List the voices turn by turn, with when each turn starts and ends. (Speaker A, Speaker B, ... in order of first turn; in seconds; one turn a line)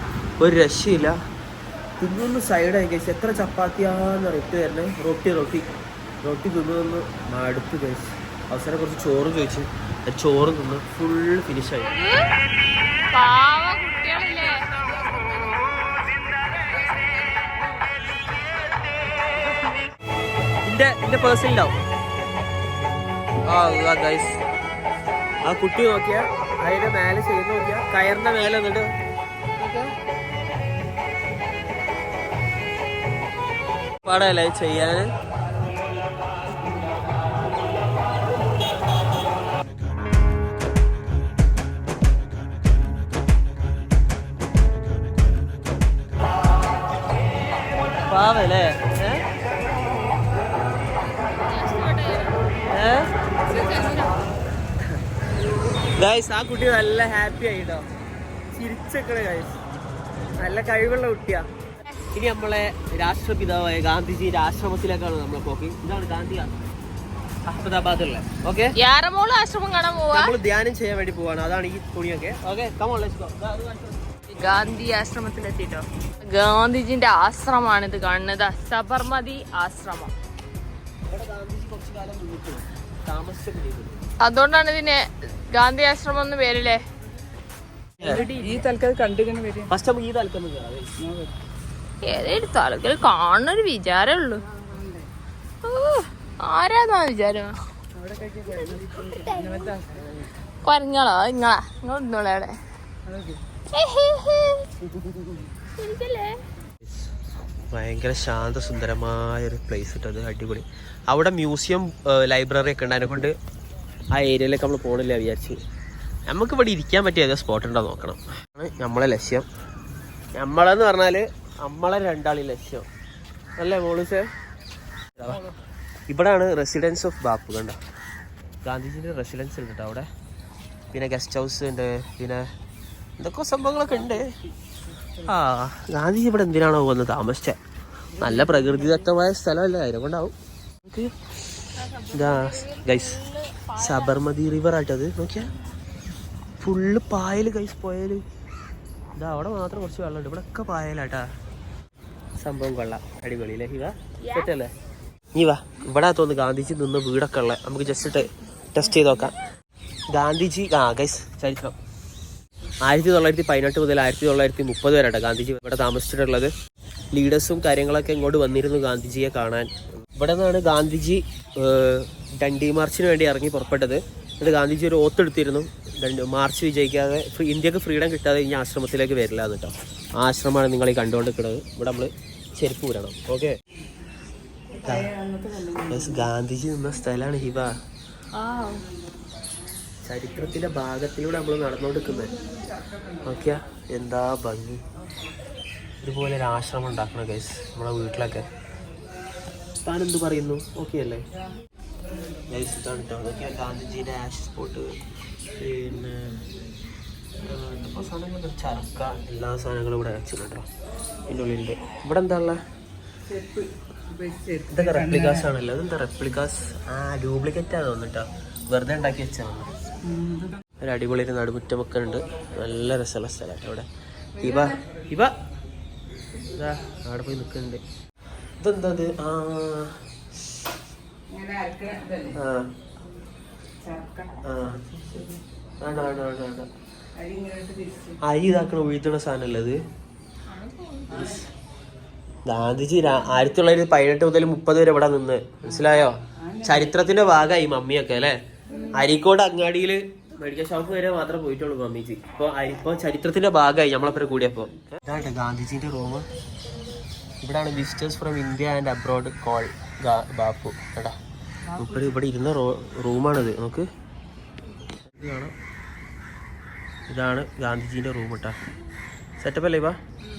Speaker A: 0.4-1.1
Speaker A: 2.0-5.7
Speaker A: 6.2-11.9
Speaker B: 11.8-12.3
Speaker B: 13.1-15.2
Speaker A: 20.6-21.7
Speaker A: 23.5-24.4
Speaker A: 25.4-28.9
Speaker B: 29.6-29.9
Speaker A: 34.0-35.1
Speaker A: 48.0-49.2
Speaker B: 51.2-52.6
Speaker A: 52.7-53.1
Speaker B: 53.4-54.2
Speaker A: 55.8-57.9
Speaker A: 58.5-59.6
Speaker A: 60.4-61.4
Speaker A: 62.1-66.5
Speaker A: 67.5-68.7
Speaker B: 68.7-70.3
Speaker A: 70.1-74.0
Speaker B: 74.3-80.1
Speaker A: 81.1-84.0
Speaker B: 84.2-86.8
Speaker B: 88.0-88.7
Speaker C: 88.6-89.6
Speaker A: 89.7-90.9
Speaker B: 92.0-94.5
Speaker B: 95.6-97.6
Speaker C: 98.0-99.0
Speaker B: 98.5-99.8
Speaker B: 100.6-102.5
Speaker B: 103.7-104.7
Speaker B: 105.7-106.4
Speaker A: 107.7-113.3
Speaker A: 114.1-115.6
Speaker A: 116.3-119.5
Speaker A: 120.3-122.8
Speaker A: 123.6-124.3
Speaker A: 125.2-125.4
Speaker A: 126.1-127.8
Speaker A: 128.6-130.1
Speaker A: 130.9-132.4
Speaker A: 133.2-134.3
Speaker A: 135.2-137.6
Speaker A: 138.2-141.1
Speaker B: 141.8-144.2
Speaker A: 142.1-143.2
Speaker A: 143.8-145.5
Speaker A: 146.6-148.2
Speaker A: 149.2-151.2
Speaker A: 152.4-154.7
Speaker B: 154.2-154.5
Speaker A: 155.3-159.3
Speaker A: 160.1-161.8
Speaker A: 162.8-166.5
Speaker A: 167.1-183.5
Speaker A: 184.8-185.2
Speaker A: 185.7-187.7
Speaker B: 188.3-188.8
Speaker A: 190.0-192.3
Speaker A: 193.2-194.8
Speaker A: 196.0-198.5
Speaker A: 199.8-201.2
Speaker A: 202.5-204.9
Speaker A: 205.5-206.4
Speaker A: 207.4-210.7
Speaker A: 211.3-212.6
Speaker C: 214.2-214.6
Speaker A: 214.6-219.7
Speaker A: 220.8-223.8
Speaker A: 224.4-225.3
Speaker A: 226.5-227.8
Speaker A: 228.6-230.0
Speaker C: 231.6-232.2
Speaker A: 232.3-232.7
Speaker A: 234.4-236.7
Speaker C: 237.3-237.8
Speaker A: 238.2-239.8
Speaker B: 240.5-241.3
Speaker A: 242.4-248.4
Speaker A: 248.9-256.3
Speaker A: 257.4-261.1
Speaker A: 261.7-263.9
Speaker A: 265.1-265.5
Speaker A: 267.1-268.5
Speaker A: 269.4-269.9